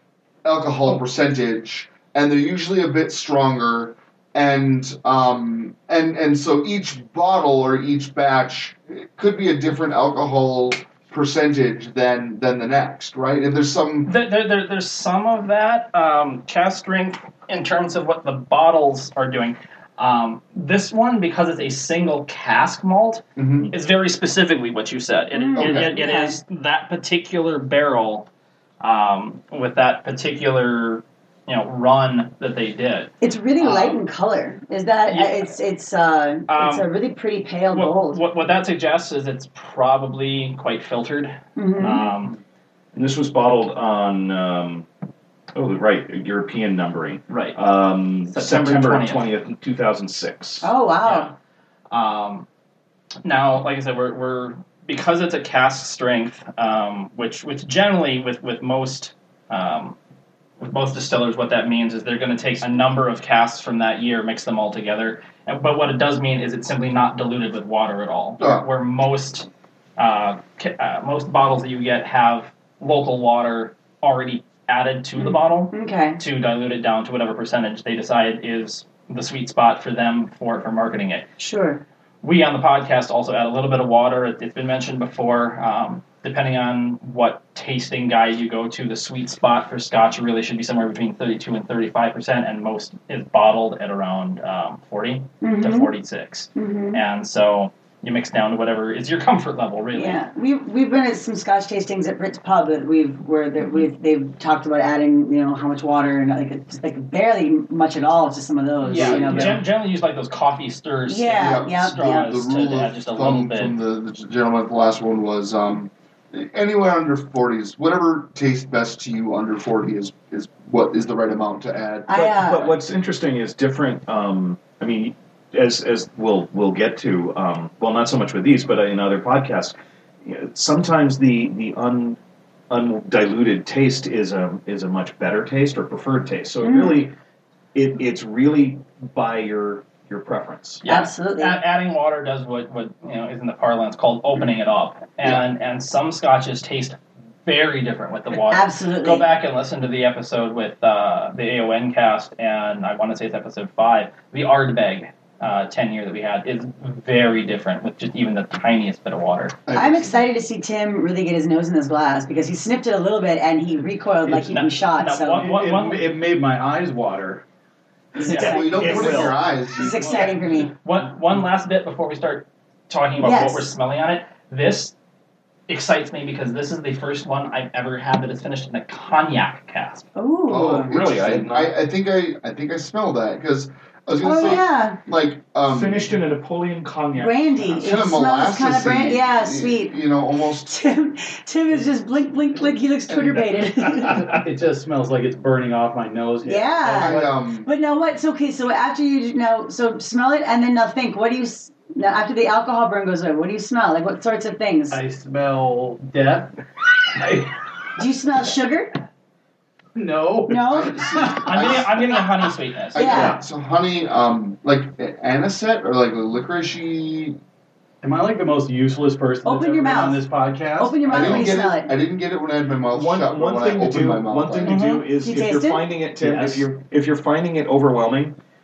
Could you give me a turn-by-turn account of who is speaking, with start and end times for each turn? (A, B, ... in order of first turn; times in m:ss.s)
0:00.4-0:14.1 A
0:14.0-0:28.3 B
0:23.4-0:23.7 A
0:25.3-0:26.4 C
0:25.6-0:25.9 A
0:28.8-0:34.0 B
0:33.2-0:38.2 C
0:35.1-0:35.5 B
0:36.5-0:36.9 B
0:37.7-0:42.4 B
0:41.6-0:42.1 C
0:42.9-0:44.9 D
0:45.5-0:50.7 D
0:47.3-0:47.6 B
0:48.3-0:49.2 B
0:50.6-0:51.3 C
0:51.0-0:51.3 B
0:51.9-0:52.4 B
0:53.2-1:00.0 B
1:00.6-1:21.3 B
1:08.4-1:08.6 A
1:15.2-1:16.2 C
1:21.4-1:21.8 C
1:22.2-1:40.2 B
1:35.4-1:35.9 C
1:36.6-1:37.0 C
1:39.9-1:49.6 C
1:48.8-1:53.8 B
1:49.0-1:49.6 A
1:51.1-1:52.3 C
1:51.3-2:02.3 A
2:02.1-2:02.8 C
2:02.1-2:12.2 D
2:12.7-2:17.1 D
2:16.6-2:17.1 C
2:17.7-2:20.8 D
2:20.8-2:39.6 B
2:20.8-2:21.6 C
2:28.4-2:29.2 C
2:39.6-2:40.2 A
2:39.7-2:45.5 C
2:44.2-2:44.5 E
2:44.3-2:46.0 B
2:45.4-2:47.4 E
2:48.1-2:50.7 C
2:48.2-2:48.7 B
2:48.3-2:49.4 D
2:48.3-2:50.3 A
2:48.8-2:49.2 E
2:50.0-2:50.4 E
2:50.8-2:54.9 B
2:53.2-2:53.7 C
2:55.7-3:00.1 B
3:00.2-3:00.9 C
3:00.5-3:06.1 A
3:00.8-3:01.7 D
3:04.2-3:05.0 C
3:05.6-3:07.9 D
3:07.1-3:09.9 C
3:07.8-3:10.8 A
3:10.5-3:14.4 C
3:14.1-3:17.3 E
3:16.4-3:25.0 C
3:16.8-3:17.7 A
3:24.9-3:26.6 E
3:27.2-3:27.5 E
3:28.0-3:28.9 C
3:29.9-3:31.7 E
3:30.5-3:31.0 C
3:30.7-3:32.1 A
3:31.4-3:33.2 B
3:32.9-3:37.4 A
3:32.9-3:33.4 C
3:33.1-3:33.4 D
3:38.0-3:41.6 E
3:39.4-3:41.9 C
3:41.1-3:44.8 A
3:42.9-3:48.4 D
3:44.6-3:45.0 B
3:45.1-3:46.0 C
3:46.2-3:46.7 E